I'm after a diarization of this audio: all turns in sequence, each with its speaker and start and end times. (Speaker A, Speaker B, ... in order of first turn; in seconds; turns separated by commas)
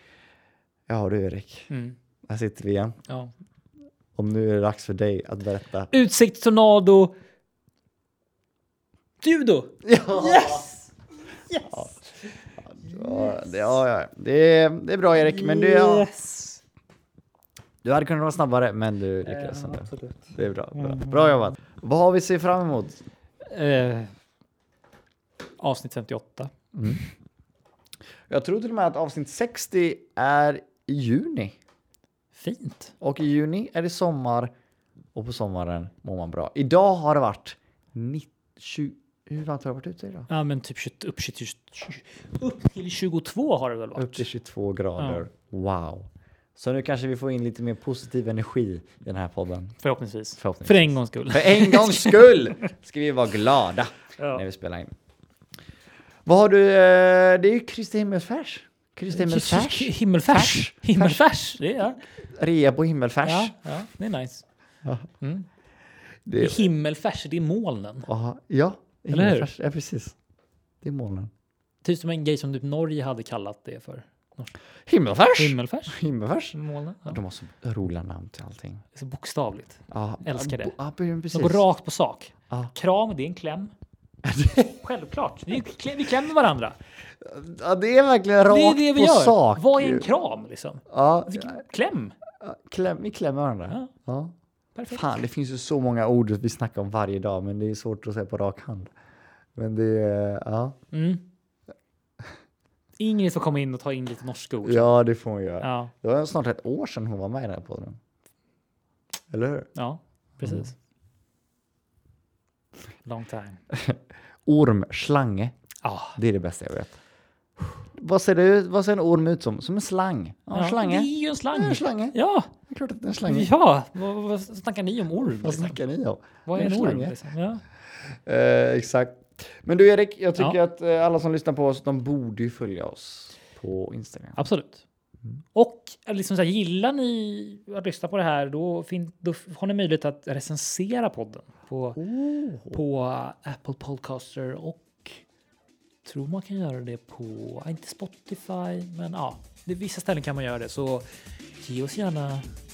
Speaker A: 0.9-1.7, Speaker B: 1.7-2.0, Speaker A: 2.3-3.0, Speaker A: 4.2-5.9, Speaker B: 5.9-7.1, Speaker B: 9.2-10.9, Speaker A: 9.8-10.7, Speaker B: 11.5-12.0, Speaker A: 12.6-16.1, Speaker B: 12.8-13.8, Speaker B: 15.2-16.6, Speaker A: 17.8-23.0, Speaker B: 19.2-21.5, Speaker B: 23.5-24.1, Speaker B: 25.6-26.5, Speaker A: 26.7-27.0, Speaker A: 28.3-31.6, Speaker B: 32.4-32.9, Speaker A: 33.0-34.5, Speaker A: 35.1-40.3, Speaker B: 40.3-44.3, Speaker A: 44.0-49.8, Speaker B: 45.0-45.3, Speaker B: 49.8-52.4, Speaker A: 50.4-54.9, Speaker A: 56.3-61.3, Speaker B: 59.1-62.0, Speaker A: 62.2-63.5, Speaker B: 63.2-64.4, Speaker B: 65.2-65.5, Speaker A: 66.3-66.7, Speaker B: 66.4-68.1, Speaker A: 68.1-70.2, Speaker B: 69.1-69.5, Speaker A: 70.8-71.3, Speaker B: 71.8-74.5, Speaker A: 74.9-78.8, Speaker B: 75.3-76.0, Speaker B: 76.5-77.2, Speaker B: 78.9-80.8, Speaker A: 79.9-81.7, Speaker B: 81.3-83.7, Speaker A: 84.2-84.8, Speaker B: 84.8-86.8, Speaker A: 87.2-90.1, Speaker B: 88.5-92.2, Speaker A: 90.9-91.6, Speaker A: 92.4-94.3, Speaker B: 94.8-95.0, Speaker A: 94.9-98.9, Speaker A: 99.6-100.8, Speaker B: 100.9-101.2, Speaker B: 103.0-104.9, Speaker A: 104.6-108.0, Speaker B: 105.6-105.9, Speaker A: 109.3-109.7, Speaker B: 109.8-110.7, Speaker B: 113.0-113.6, Speaker A: 113.7-115.5, Speaker B: 115.8-116.2, Speaker A: 116.2-117.0, Speaker A: 117.7-122.2, Speaker B: 120.5-122.5, Speaker A: 122.7-123.5, Speaker B: 123.3-125.8, Speaker A: 125.2-127.2, Speaker B: 126.5-127.6, Speaker A: 128.2-134.4, Speaker B: 134.4-134.8, Speaker B: 135.6-142.0, Speaker A: 142.0-142.8, Speaker B: 142.7-145.2, Speaker B: 146.1-151.1, Speaker B: 151.6-152.5